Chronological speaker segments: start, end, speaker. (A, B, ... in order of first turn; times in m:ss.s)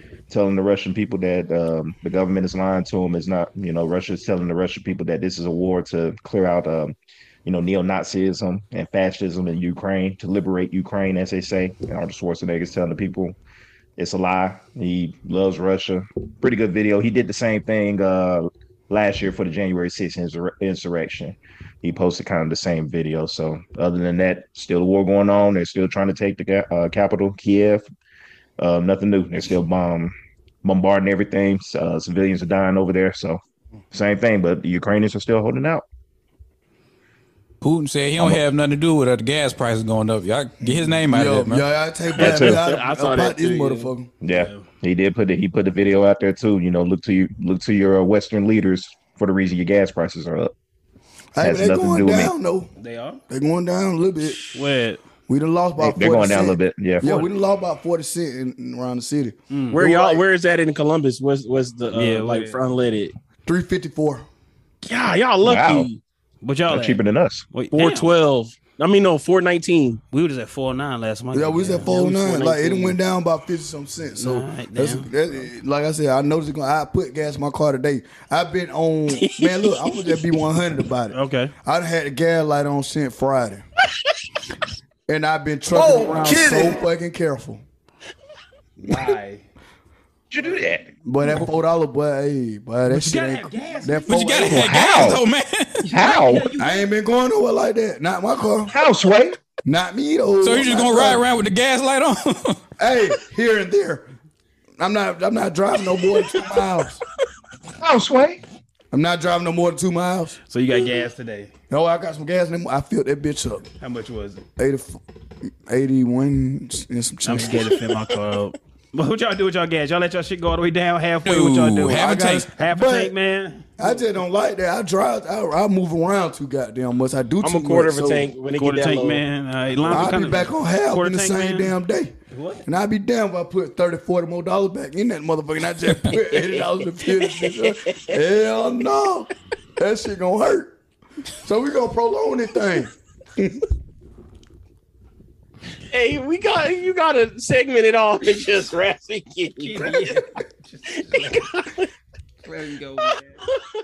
0:00.3-0:13.4 A
0:14.0-0:27.8 A
0:28.6-0:33.4 A
0:33.9-0:35.8 A
0:37.6-0:41.6 B
0:38.2-0:38.4 A
0:41.1-0:44.1 C
0:42.2-0:43.9 D
0:42.2-0:42.6 A
0:44.2-0:50.5 A
0:44.3-0:44.7 E
0:51.3-0:52.7 C
0:51.4-0:52.3 A
0:52.8-0:53.2 E
0:53.3-0:54.5 C
0:54.2-0:55.0 E
0:55.3-1:00.2 C
0:55.8-0:57.1 A
0:57.0-0:57.3 E
0:59.5-0:59.8 E
0:59.7-1:03.1 D
1:01.9-1:02.6 E
1:03.4-1:04.2 C
1:04.8-1:06.0 D
1:05.4-1:05.9 A
1:06.4-1:07.0 E
1:06.7-1:07.5 A
1:07.5-1:08.1 E
1:07.7-1:10.0 D
1:10.1-1:13.0 E
1:11.3-1:23.6 C
1:14.2-1:15.1 E
1:19.1-1:20.2 D
1:21.1-1:21.5 E
1:25.1-1:27.6 C
1:28.8-1:29.4 E
1:30.3-1:30.8 A
1:30.4-1:30.7 E
1:31.0-1:34.7 C
1:32.9-1:34.7 E
1:34.1-1:35.2 A
1:34.1-1:36.0 B
1:35.9-1:36.5 A
1:35.9-1:36.9 E
1:36.6-1:38.7 C
1:38.7-1:39.4 A
1:39.6-1:41.2 C
1:40.4-1:42.6 B
1:42.8-1:44.1 C
1:44.8-1:47.0 C
1:47.8-1:48.4 A
1:48.9-1:50.4 C
1:50.5-1:51.5 E
1:51.7-1:53.7 C
1:53.8-1:54.4 E
1:54.6-1:55.0 C
1:55.7-1:57.6 C
1:57.2-2:04.0 E
1:57.4-1:58.2 D
2:01.2-2:02.5 B
2:01.9-2:03.2 C
2:03.8-2:08.3 C
2:07.4-2:09.2 D
2:08.5-2:11.8 E
2:09.8-2:10.1 D
2:09.8-2:20.8 C
2:09.9-2:10.2 B
2:12.3-2:12.6 E
2:16.3-2:18.1 D
2:21.4-2:23.6 C
2:25.9-2:30.2 D
2:29.6-2:31.4 E
2:30.9-2:31.9 D
2:32.4-2:33.4 E
2:33.5-2:33.8 D